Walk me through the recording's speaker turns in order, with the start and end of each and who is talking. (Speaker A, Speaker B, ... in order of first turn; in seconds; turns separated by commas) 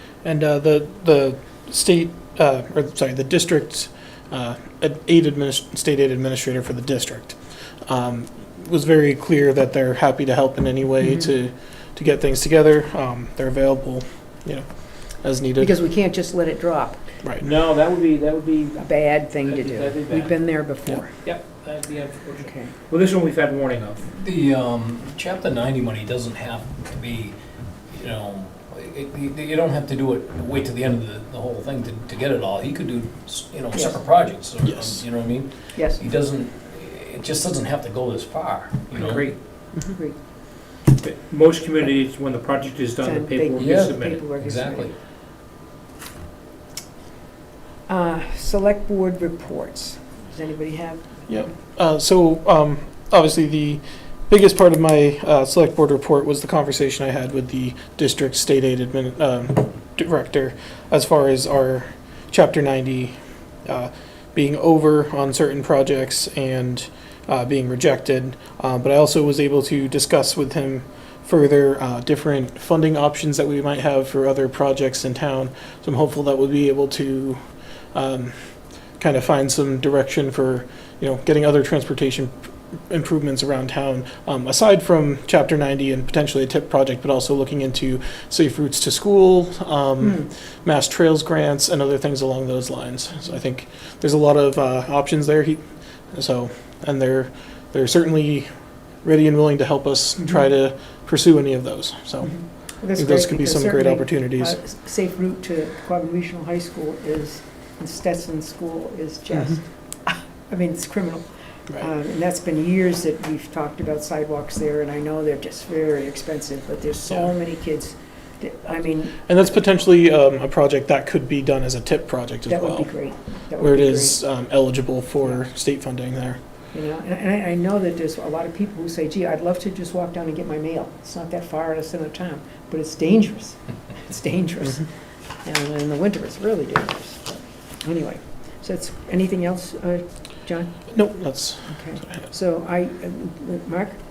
Speaker A: 0.2-15.7, Speaker B: 11.0-11.3, Speaker B: 15.6-17.0, Speaker A: 17.2-17.5, Speaker C: 17.4-20.5, Speaker B: 18.8-21.1, Speaker C: 21.1-24.1, Speaker B: 22.4-22.7, Speaker D: 24.1-27.4, Speaker D: 27.9-39.3, Speaker B: 33.7-34.0, Speaker A: 34.6-35.0, Speaker B: 35.7-36.0, Speaker C: 38.9-39.4, Speaker C: 40.9-44.2, Speaker B: 43.0-44.9, Speaker D: 43.6-45.0, Speaker B: 47.9-51.5, Speaker A: 51.3-77.4, Speaker A: 77.9-82.3, Speaker A: 82.9-98.5, Speaker A: 99.0-104.6, Speaker B: 102.2-111.2, Speaker B: 111.8-119.3, Speaker A: 119.3-122.9, Speaker B: 122.5-124.2, Speaker A: 123.6-126.4, Speaker B: 126.7-134.9, Speaker B: 135.4-140.7, Speaker A: 140.9-142.2, Speaker B: 141.7-144.0